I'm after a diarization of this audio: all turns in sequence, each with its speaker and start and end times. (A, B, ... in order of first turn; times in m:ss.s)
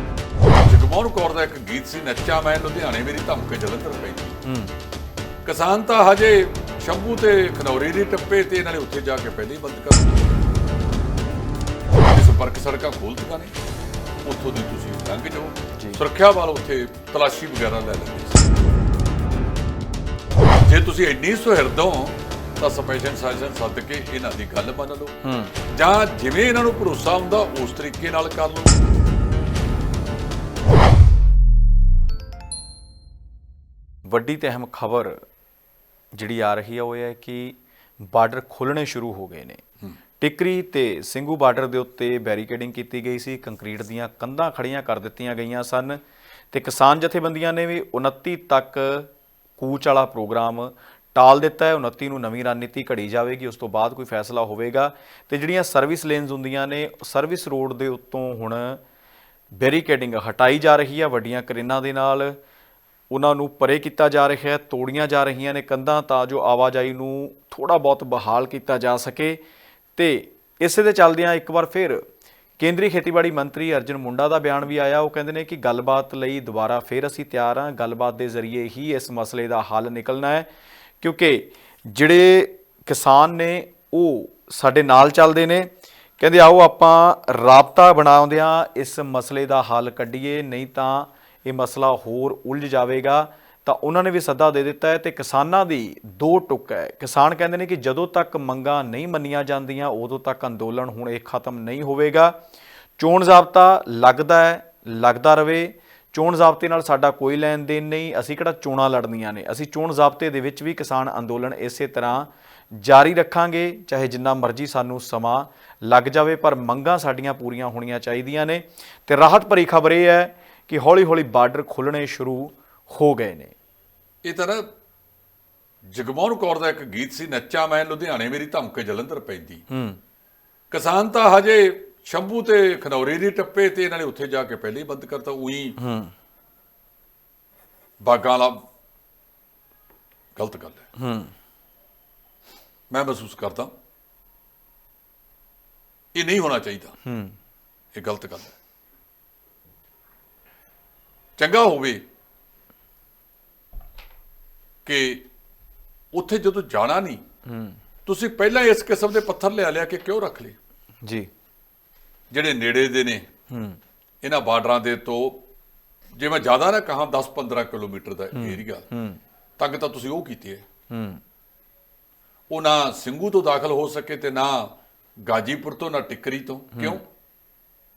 0:00.7-0:04.4 A
0:04.4-0:04.7 B
0:05.4-0:10.3 A
0:12.1-0:13.6 A
0:14.2-0:18.5 A
0:20.6-0:25.2 A
0:25.2-0:25.5 B
0:25.7-0:28.7 A
0:34.0-0:35.2 B
0:36.1-0:39.6 B
0:40.2-0:46.0 B
0:46.5-0:58.8 B
0:59.6-1:02.4 B
1:03.1-1:09.4 B
1:10.0-1:12.0 B
1:12.6-1:20.5 B
1:21.0-1:42.4 B
1:43.0-2:03.6 B
2:04.2-2:04.6 A
2:05.9-2:09.6 A
2:09.7-2:10.0 B
2:10.7-2:15.8 A
2:15.8-2:16.1 B
2:18.0-2:18.6 A
2:20.4-2:20.8 A
2:21.0-2:21.3 B
2:22.9-2:23.7 A
2:26.2-2:27.0 A
2:27.0-2:27.4 B
2:27.9-2:28.5 A
2:31.4-2:32.0 A
2:34.8-2:35.2 A
2:36.1-2:37.2 A
2:37.5-2:37.8 B
2:38.1-2:40.6 A
2:41.0-2:41.3 B
2:42.3-2:43.3 A
2:43.5-2:43.8 B
2:44.2-2:45.4 A
2:46.2-2:48.8 A
2:48.3-2:49.2 B
2:49.6-2:50.6 A
2:50.9-2:51.2 B
2:52.5-2:57.0 A